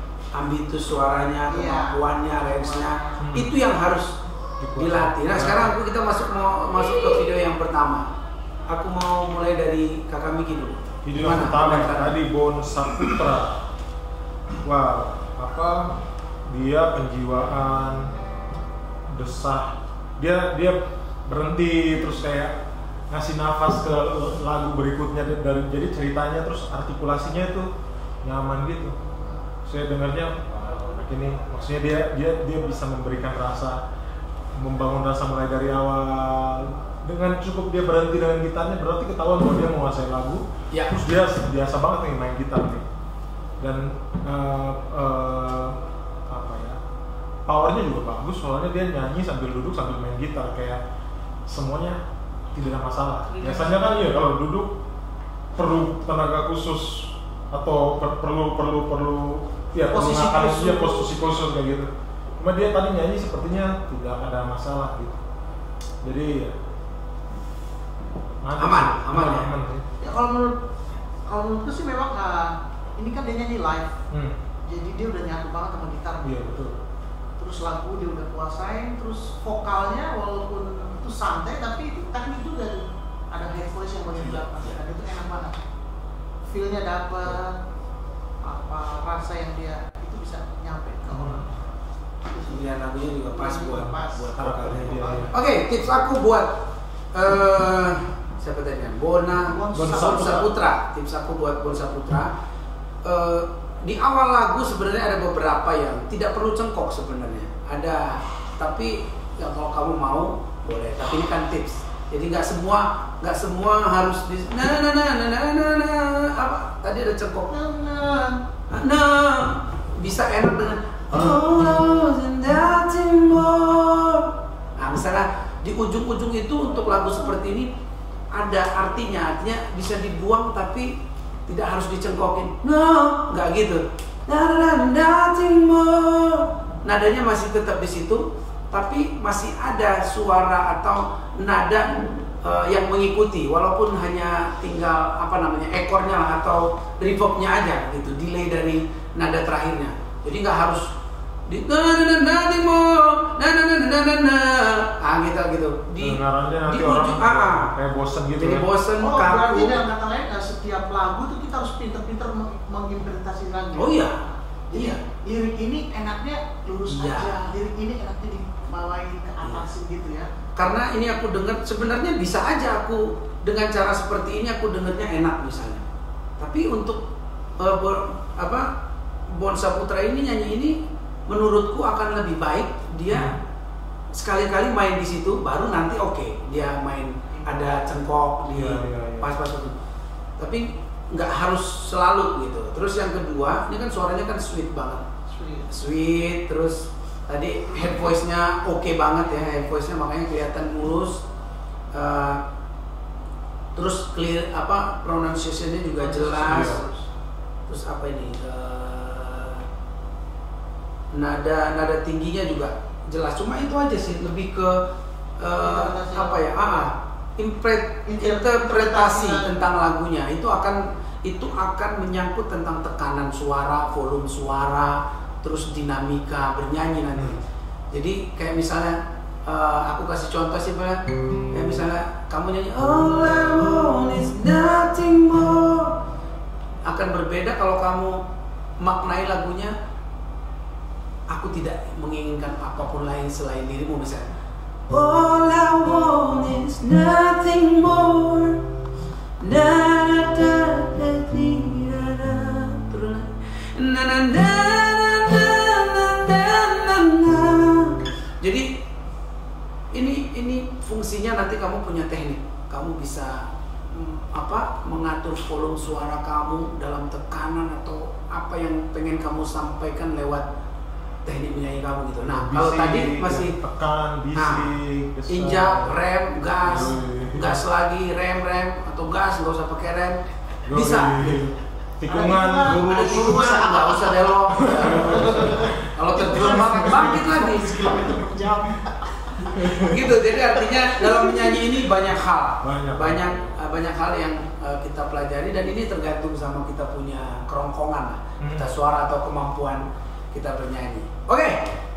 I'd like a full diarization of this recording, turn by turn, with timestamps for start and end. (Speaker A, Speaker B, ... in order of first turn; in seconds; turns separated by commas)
Speaker A: 0.3-4.1, Speaker B: 1.5-3.2, Speaker C: 3.2-3.5, Speaker C: 4.6-5.8, Speaker A: 4.8-8.1, Speaker A: 8.7-12.2, Speaker C: 11.0-13.6, Speaker C: 14.6-16.0, Speaker C: 16.5-18.1, Speaker C: 19.1-27.7, Speaker C: 28.2-28.9, Speaker C: 29.6-33.8, Speaker C: 34.5-42.8, Speaker A: 40.7-41.0, Speaker C: 43.6-46.8, Speaker C: 47.5-50.8, Speaker C: 51.5-52.0, Speaker C: 52.5-54.8, Speaker C: 55.5-65.2, Speaker B: 59.9-61.1, Speaker C: 66.0-66.5, Speaker C: 68.4-69.8, Speaker A: 68.6-69.5, Speaker B: 70.0-70.6, Speaker B: 71.3-73.9, Speaker C: 74.1-74.4, Speaker B: 74.7-76.4, Speaker C: 76.2-76.7, Speaker B: 77.4-85.6, Speaker B: 86.5-87.6, Speaker B: 88.4-91.5, Speaker C: 91.2-91.4, Speaker B: 92.3-92.6, Speaker A: 92.5-96.6, Speaker B: 93.3-95.3, Speaker C: 94.0-95.3, Speaker A: 97.1-102.3, Speaker B: 99.5-100.5, Speaker C: 99.8-100.0, Speaker A: 103.0-117.5, Speaker B: 117.5-118.4, Speaker A: 118.7-127.7, Speaker A: 128.3-130.9, Speaker A: 131.5-150.9, Speaker A: 151.5-157.7, Speaker C: 156.0-158.7, Speaker A: 158.4-159.8, Speaker B: 159.0-170.3, Speaker A: 163.8-164.2, Speaker A: 164.7-165.0, Speaker A: 166.9-167.5, Speaker A: 169.4-169.7, Speaker A: 170.6-175.8, Speaker A: 176.4-177.0, Speaker A: 177.6-178.7, Speaker A: 179.3-183.3, Speaker C: 183.1-183.3, Speaker A: 184.1-189.8, Speaker C: 188.5-189.3, Speaker A: 190.4-195.0, Speaker B: 195.3-195.7, Speaker A: 195.7-201.2, Speaker A: 201.9-202.4, Speaker A: 203.7-206.8, Speaker B: 206.0-207.0, Speaker C: 206.4-206.8, Speaker A: 207.7-209.6, Speaker A: 211.1-214.8, Speaker A: 215.4-227.4, Speaker B: 215.6-216.5, Speaker B: 218.1-219.5, Speaker A: 227.9-231.0, Speaker A: 231.5-236.0, Speaker A: 236.8-238.2, Speaker A: 238.8-239.7, Speaker A: 241.3-244.3, Speaker A: 244.9-248.6, Speaker A: 249.4-258.7, Speaker A: 259.9-270.5, Speaker A: 271.2-273.5, Speaker C: 272.2-276.0, Speaker A: 274.3-274.7, Speaker A: 275.3-281.4, Speaker C: 276.6-277.6, Speaker C: 280.6-283.7, Speaker B: 282.1-284.2, Speaker A: 282.8-287.9, Speaker C: 284.6-287.3, Speaker B: 284.7-289.6, Speaker C: 289.6-289.9, Speaker A: 289.7-301.7, Speaker B: 291.0-291.5, Speaker C: 292.6-293.5, Speaker C: 298.4-298.7